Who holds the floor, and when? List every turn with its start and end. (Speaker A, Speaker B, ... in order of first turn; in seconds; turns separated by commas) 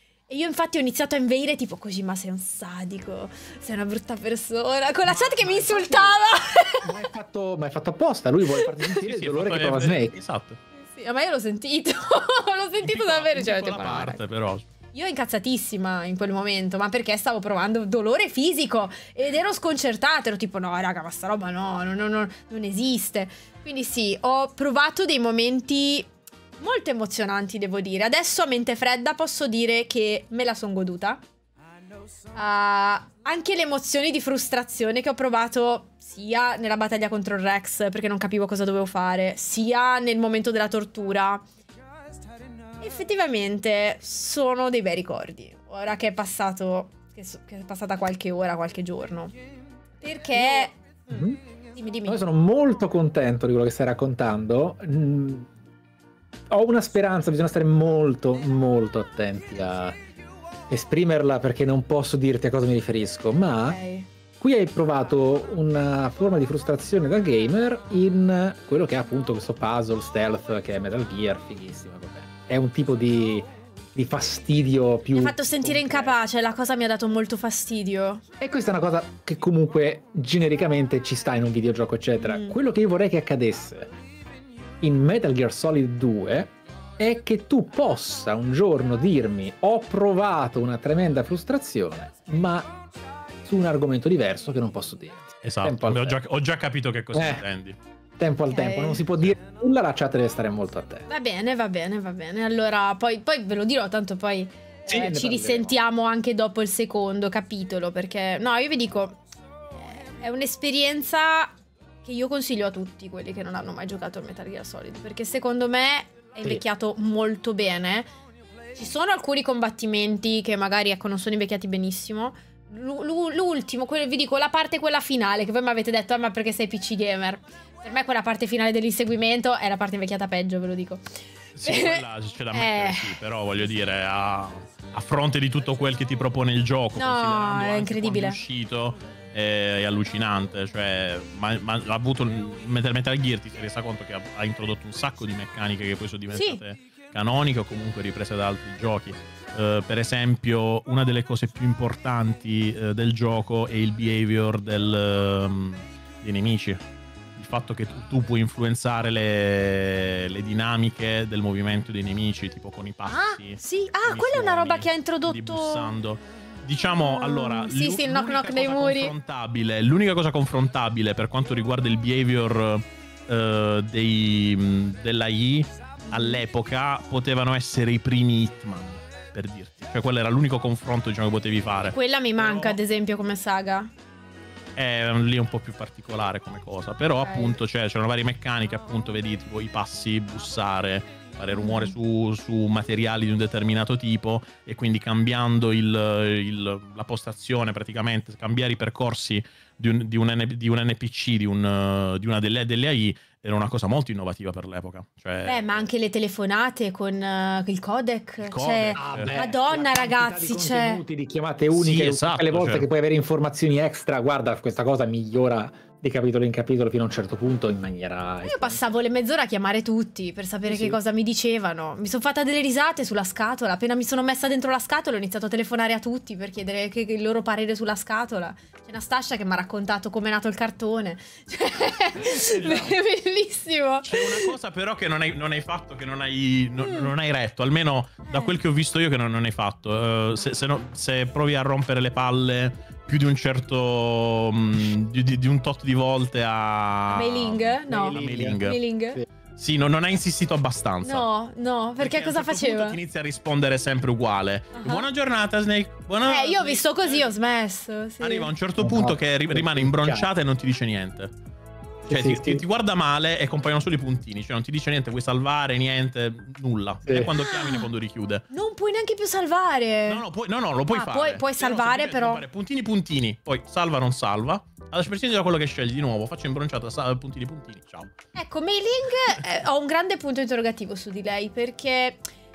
Speaker A: 0.3-6.9, Speaker B: 5.0-6.2, Speaker B: 6.8-10.2, Speaker C: 8.9-10.6, Speaker A: 10.7-14.2, Speaker C: 12.8-14.6, Speaker A: 14.9-26.1, Speaker A: 26.6-31.2, Speaker A: 32.3-41.4, Speaker A: 42.8-49.3, Speaker A: 50.0-51.2, Speaker B: 50.4-51.4, Speaker A: 51.7-52.2, Speaker B: 52.0-55.5, Speaker B: 56.5-60.0, Speaker B: 60.7-63.8, Speaker A: 63.6-64.1, Speaker B: 64.4-76.1, Speaker A: 75.1-78.2, Speaker B: 78.4-83.9, Speaker A: 82.2-82.5, Speaker B: 84.8-92.7, Speaker B: 93.4-96.2, Speaker C: 95.4-97.8, Speaker B: 97.1-97.4, Speaker B: 98.2-101.1, Speaker A: 98.5-99.0, Speaker A: 101.1-109.2, Speaker B: 104.9-105.8, Speaker A: 109.7-118.1, Speaker A: 118.8-133.2, Speaker C: 131.6-156.8, Speaker A: 136.9-138.4, Speaker A: 146.3-146.6, Speaker C: 157.3-182.8, Speaker A: 163.1-165.9, Speaker A: 167.0-169.1, Speaker A: 176.1-176.4, Speaker A: 181.9-183.9, Speaker C: 184.8-205.9, Speaker A: 187.2-187.6, Speaker A: 191.5-191.9, Speaker A: 205.4-211.0, Speaker C: 208.4-209.3, Speaker B: 208.9-218.8, Speaker C: 211.7-212.8, Speaker A: 218.4-234.5, Speaker B: 220.7-221.0, Speaker C: 232.3-232.9, Speaker C: 234.1-248.8, Speaker A: 236.8-237.1, Speaker A: 238.3-238.5, Speaker A: 247.1-249.2, Speaker B: 247.9-249.2, Speaker C: 249.6-251.3, Speaker A: 251.0-253.0, Speaker C: 252.0-257.3, Speaker A: 254.8-255.1, Speaker A: 256.2-258.5, Speaker C: 258.2-261.3, Speaker B: 258.8-260.3, Speaker C: 262.1-268.4, Speaker B: 262.1-262.6, Speaker B: 267.1-267.3, Speaker A: 267.3-267.9, Speaker A: 268.5-270.2, Speaker C: 270.1-278.1, Speaker A: 270.9-272.4, Speaker A: 278.3-282.2